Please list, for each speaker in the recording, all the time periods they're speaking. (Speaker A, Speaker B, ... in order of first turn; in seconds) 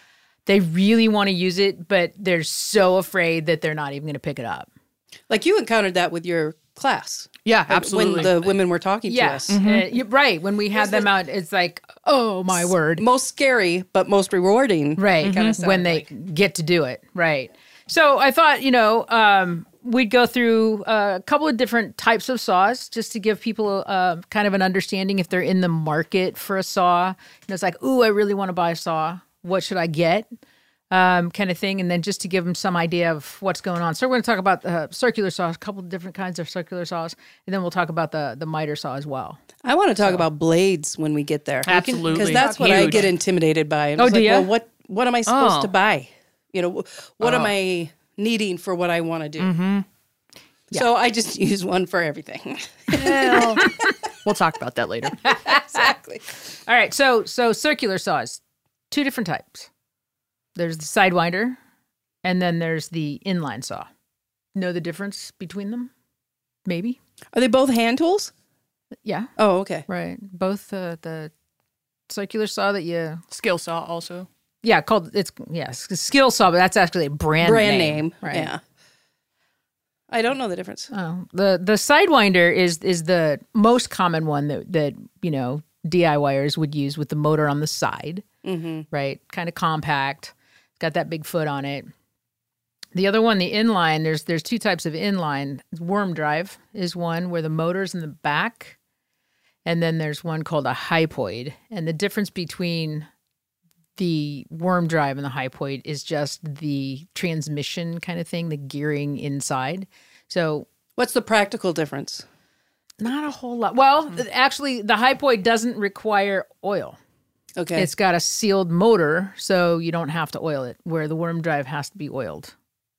Speaker A: 0.5-4.7, 9.1-13.0, 15.0-30.3, 30.9-39.4, 41.7-43.1, 44.0-44.5, 55.2-55.9, 56.6-58.4, 58.9-59.7, 60.5-61.6, 62.2-63.9, 64.5-65.9, 66.7-67.0, 69.0-69.3, 69.9-71.3, 72.1-73.2, 74.6-78.5, 80.9-88.2, 88.9-91.9, 92.9-98.8, 99.6-103.0, 104.0-110.7, 113.0-117.0, 117.8-122.5
Speaker B: 5.3-9.6, 10.7-11.1, 12.6-16.0, 39.6-49.5, 50.7-53.7, 55.5-56.2, 67.3-68.3, 69.4-69.8, 77.4-78.6, 80.1-80.9, 88.4-88.9, 111.0-112.2, 117.5-117.9
Speaker C: 7.5-8.5, 9.5-9.9, 15.2-15.6, 41.6-43.1, 45.2-45.7, 47.2-47.5, 49.4-49.9, 52.9-53.7, 54.2-55.2, 73.3-74.3